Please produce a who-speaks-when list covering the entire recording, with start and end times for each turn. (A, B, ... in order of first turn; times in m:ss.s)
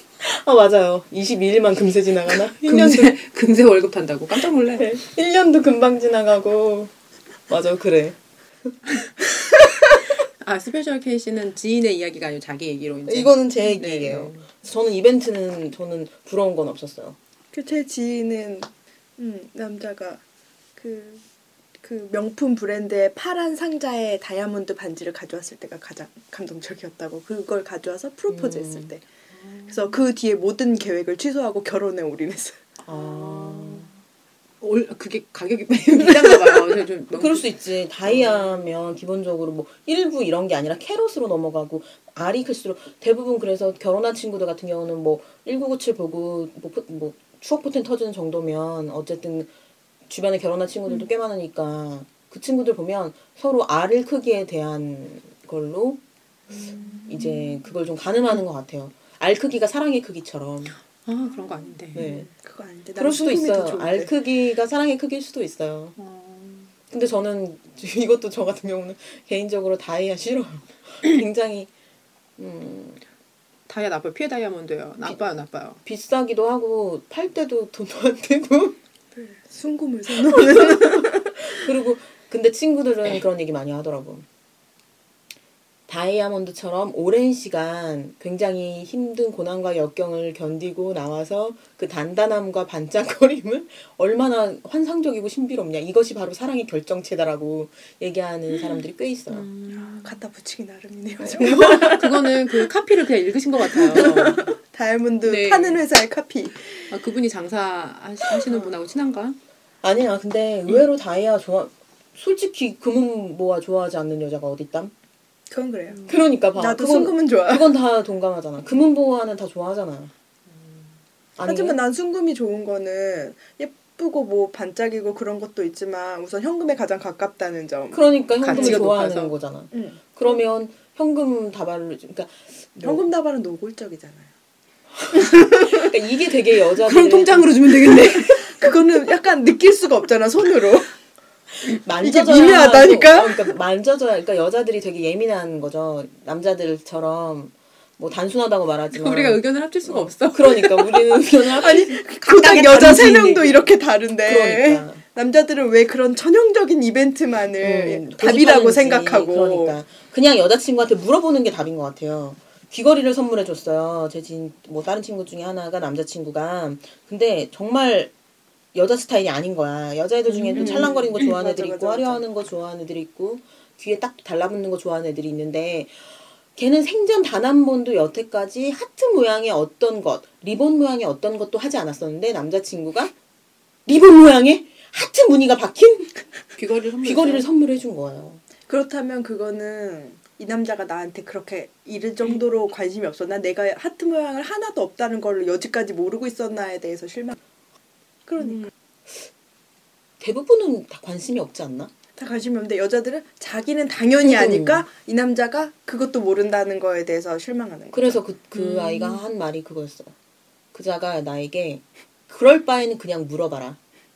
0:00.2-0:03.2 A
0:02.5-0:04.9 B
0:04.8-0:06.9 A
0:07.5-0:08.2 A
0:10.4-0:14.4 B
0:13.1-0:17.2 A
0:17.5-0:20.2 C
0:20.8-0:21.2 C
0:21.8-0:29.0 C
0:28.3-0:28.9 A
0:29.4-0:29.9 B
0:29.7-0:32.6 C
0:32.9-0:33.9 A
0:32.9-0:33.9 B
0:34.6-0:37.5 B
0:37.1-0:49.5 A
0:50.1-0:56.0 A
0:57.1-1:00.8 A
1:01.1-1:02.1 B
1:01.9-1:04.1 C
1:02.0-1:02.3 A
1:03.0-1:06.0 A
1:06.0-1:06.7 B
1:06.9-1:11.7 A
1:12.4-1:13.0 A
1:13.7-1:15.8 B
1:15.8-1:18.8 A
1:19.2-1:21.6 C
1:20.4-1:24.3 A
1:25.9-1:39.5 A
1:39.3-1:40.2 B
1:39.7-1:42.4 C
1:41.2-1:42.0 A
1:41.6-1:44.5 B
1:43.8-1:46.8 C
1:44.0-1:44.3 A
1:45.2-1:45.8 B
1:46.9-1:49.4 B
1:49.8-1:54.9 A
1:55.5-1:57.7 C
1:56.1-2:00.1 A
2:01.4-2:01.8 A
2:01.4-2:08.8 C
2:07.9-2:13.1 A
2:08.4-2:09.3 B
2:09.7-2:10.0 C
2:12.8-2:14.3 C
2:15.1-2:17.8 A
2:16.8-2:18.6 B
2:18.3-2:20.9 C
2:21.6-2:32.0 A
2:22.0-2:23.5 C
2:28.9-2:31.2 B
2:31.6-2:39.8 C
2:32.2-2:33.7 B
2:34.2-2:35.0 A
2:37.6-2:48.1 A
2:48.7-2:56.0 A
2:50.5-2:52.2 C
2:56.6-3:03.1 A
3:03.9-3:06.1 A
3:06.6-3:07.5 B
3:07.0-3:08.4 A
3:08.7-3:17.4 C
3:18.3-3:18.7 C
3:20.2-3:21.9 A
3:22.2-3:28.2 C
3:24.2-3:24.8 A
3:27.9-3:30.1 A
3:28.6-3:29.2 B
3:30.7-3:33.8 A